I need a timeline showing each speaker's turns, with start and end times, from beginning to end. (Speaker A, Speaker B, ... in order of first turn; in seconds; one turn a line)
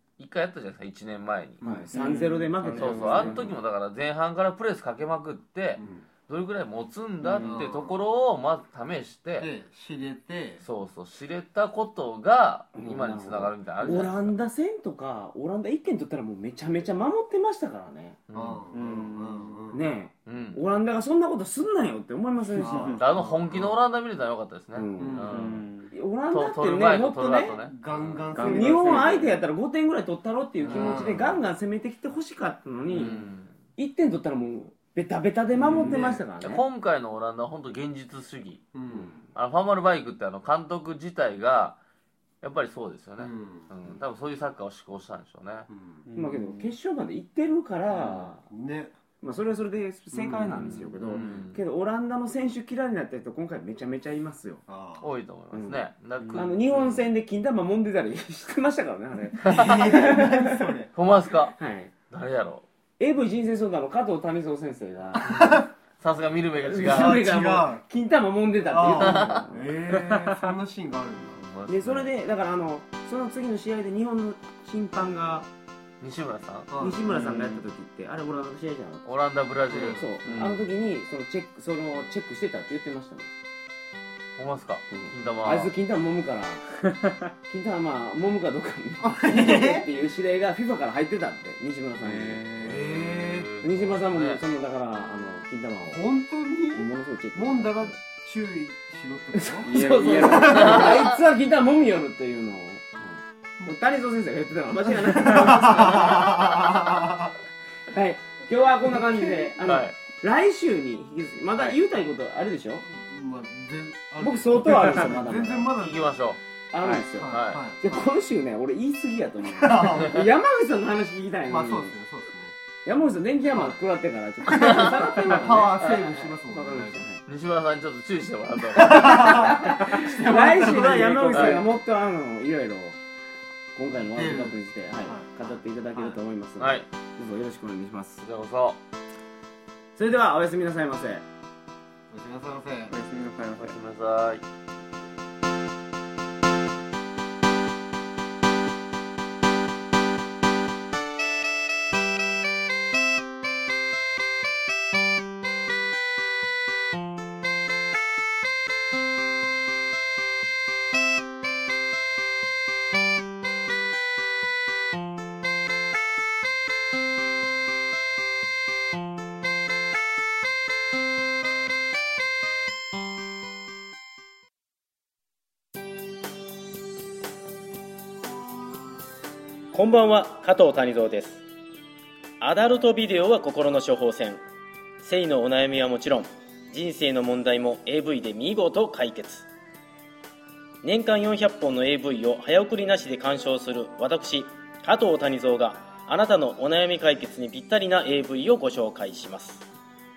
Speaker A: 0.2-1.6
Speaker B: 1.6-3.5
Speaker C: 1.6-1.9
Speaker D: 1.9-3.6
Speaker A: 2.7-9.5
Speaker C: 5.8-6.1
Speaker D: 7.2-7.7
Speaker C: 7.4-8.0
Speaker C: 9.4-10.6
Speaker A: 10.6-14.3
Speaker B: 12.8-18.2
Speaker A: 18.3-18.6
Speaker C: 18.3-19.8
Speaker D: 18.7-19.6
Speaker B: 19.7-23.0
Speaker A: 20.2-20.6
Speaker D: 22.6-22.9
Speaker C: 22.6-23.8
Speaker A: 23.0-25.6
Speaker B: 24.7-25.3
Speaker C: 25.0-25.4
Speaker D: 25.3-25.9
Speaker B: 25.9-27.6
Speaker A: 26.3-28.3
Speaker C: 27.6-29.3
Speaker D: 28.3-29.4
Speaker B: 28.4-33.2
Speaker C: 30.6-31.4
Speaker D: 30.7-31.1
Speaker A: 32.9-33.5
Speaker D: 33.0-33.3
Speaker B: 33.8-36.6
Speaker D: 35.6-36.0
Speaker C: 35.6-36.2
Speaker A: 36.4-38.8
Speaker C: 38.7-39.2
Speaker A: 39.3-41.8
Speaker A: 42.4-45.7
Speaker C: 43.2-43.7
Speaker C: 45.7-46.1
Speaker D: 46.1-46.7
Speaker B: 46.1-48.4
Speaker C: 47.9-48.9
Speaker B: 49.2-54.6
Speaker C: 50.1-51.4
Speaker A: 50.6-51.6
Speaker C: 54.7-55.1
Speaker A: 55.0-57.0
Speaker B: 55.5-60.7
Speaker D: 56.2-56.5
Speaker C: 59.4-60.9
Speaker A: 59.4-59.9
Speaker A: 60.9-61.5
Speaker B: 61.5-61.9
Speaker A: 62.1-62.6
Speaker B: 63.0-65.6
Speaker C: 65.2-65.7
Speaker A: 65.3-67.2
Speaker B: 66.6-69.7
Speaker C: 66.8-67.8
Speaker C: 68.7-71.5
Speaker A: 68.9-69.4
Speaker D: 70.0-70.5
Speaker A: 71.4-72.1
Speaker B: 71.7-75.5
Speaker A: 76.0-76.7
Speaker C: 76.7-77.4
Speaker B: 76.8-79.0
Speaker D: 77.1-77.6
Speaker A: 79.0-80.1
Speaker C: 79.7-80.1
Speaker B: 79.9-83.3
Speaker D: 80.2-80.7
Speaker A: 84.4-85.7
Speaker B: 84.9-86.7
Speaker B: 87.5-92.5
Speaker C: 89.0-89.9
Speaker D: 92.0-92.8
Speaker C: 92.6-93.5
Speaker A: 92.6-94.4
Speaker B: 93.6-96.0
Speaker C: 95.9-101.0
Speaker B: 96.8-98.0
Speaker B: 99.3-106.5
Speaker D: 99.6-100.9
Speaker A: 100.4-101.1
Speaker C: 104.9-107.3
Speaker B: 107.9-112.8
Speaker C: 109.2-109.5
Speaker A: 109.6-110.0
Speaker C: 112.8-116.1
Speaker B: 114.2-115.7
Speaker A: 115.8-117.6
Speaker B: 116.7-121.9
Speaker C: 116.9-118.0
Speaker C: 119.5-120.3
Speaker C: 121.5-122.5
Speaker B: 122.8-127.2
Speaker C: 123.5-123.7
Speaker C: 124.5-127.1
Speaker A: 124.5-125.0
Speaker A: 127.2-129.7
Speaker C: 128.6-131.7
Speaker B: 129.2-133.0
Speaker A: 131.3-131.6
Speaker B: 133.8-138.2
Speaker C: 133.9-135.3
Speaker A: 136.6-136.9
Speaker A: 138.2-138.8
Speaker B: 139.9-141.2
Speaker C: 142.1-142.9
Speaker D: 142.9-143.8
Speaker A: 143.6-144.4
Speaker E: 179.7-181.4
Speaker E: 182.4-184.4
Speaker E: 185.0-189.5
Speaker E: 190.8-199.7